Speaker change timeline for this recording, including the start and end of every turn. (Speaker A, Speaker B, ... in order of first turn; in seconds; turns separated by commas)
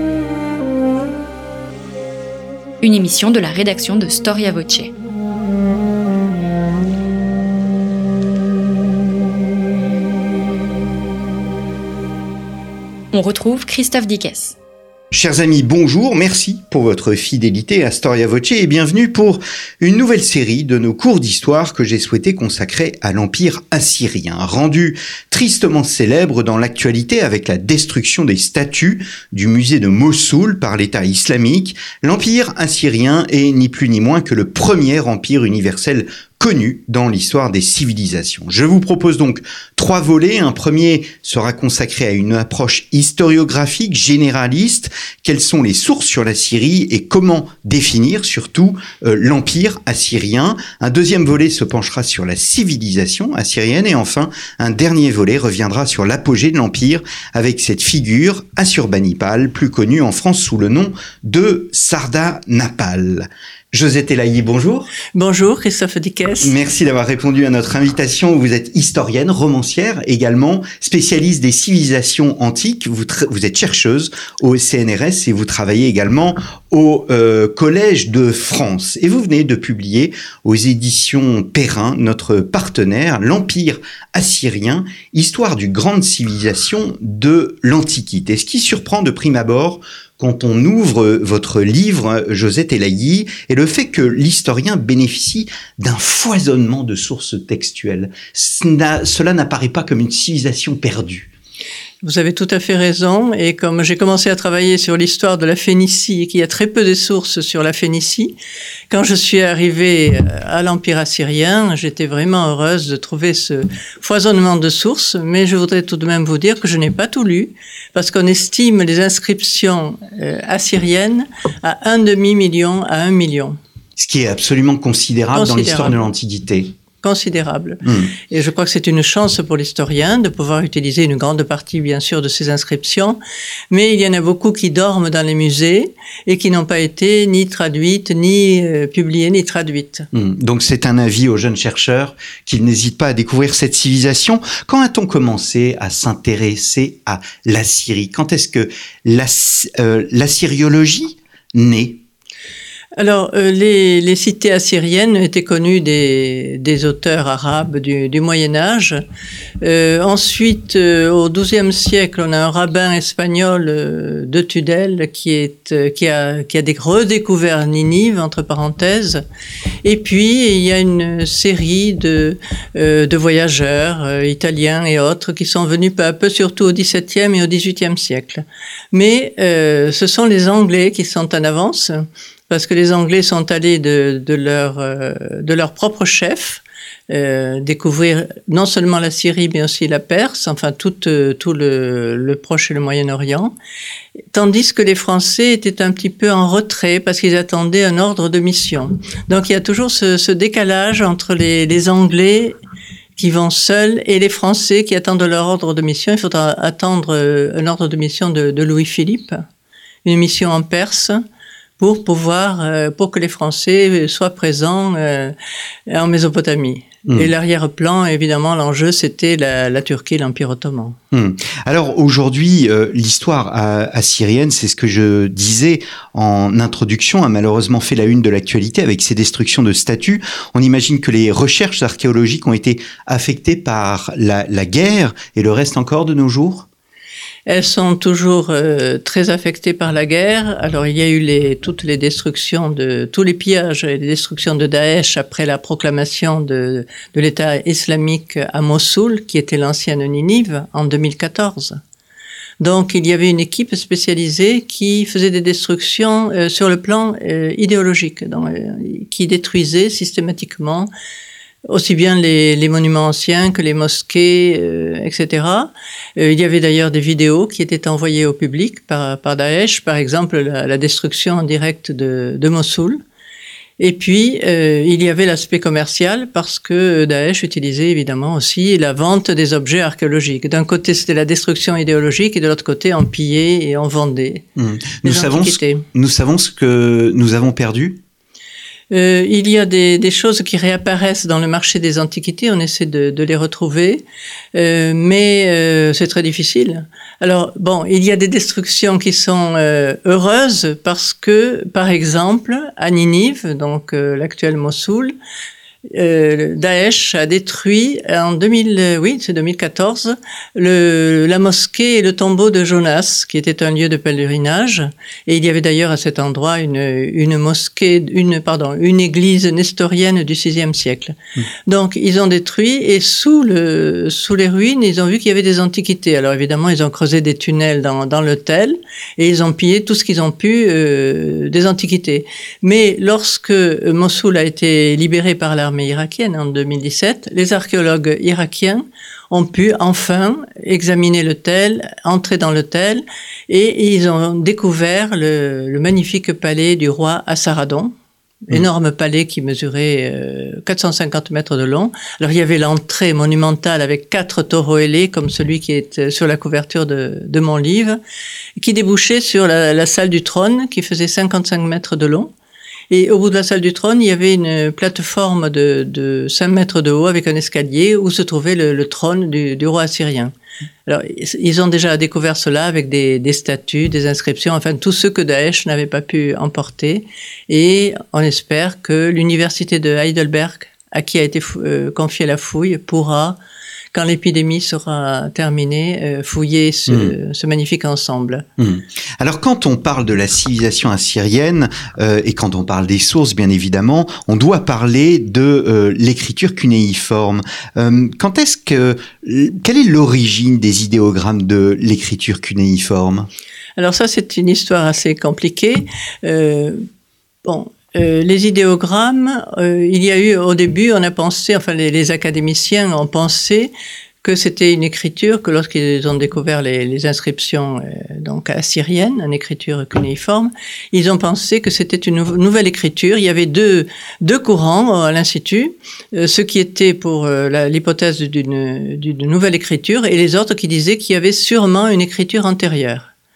Speaker A: 2.8-4.9, Speaker A: 13.1-14.6, Speaker B: 15.1-64.9, Speaker C: 65.2-66.6, Speaker B: 66.4-101.3, Speaker C: 102.0-108.3, Speaker C: 108.9-123.6, Speaker B: 124.0-126.7, Speaker C: 125.3-126.0, Speaker C: 127.0-133.2, Speaker B: 127.8-128.2, Speaker C: 133.7-140.1, Speaker B: 140.1-152.0, Speaker C: 153.0-159.0, Speaker C: 159.6-169.2, Speaker C: 169.8-193.5, Speaker C: 194.3-202.6, Speaker C: 203.2-209.4, Speaker C: 210.1-211.2, Speaker C: 211.8-215.3, Speaker C: 215.9-221.0, Speaker B: 221.1-236.7, Speaker C: 237.5-251.8, Speaker C: 252.6-260.9, Speaker C: 261.7-273.0, Speaker C: 273.8-284.4, Speaker B: 284.6-288.0, Speaker C: 285.0-285.9, Speaker C: 288.9-294.0, Speaker C: 294.6-305.1, Speaker C: 305.9-347.9, Speaker C: 348.5-358.0, Speaker C: 358.6-362.3, Speaker C: 362.9-370.3, Speaker C: 370.9-383.4, Speaker C: 383.9-388.4, Speaker B: 386.9-387.1, Speaker B: 388.6-403.3, Speaker C: 403.8-406.8, Speaker C: 407.4-433.1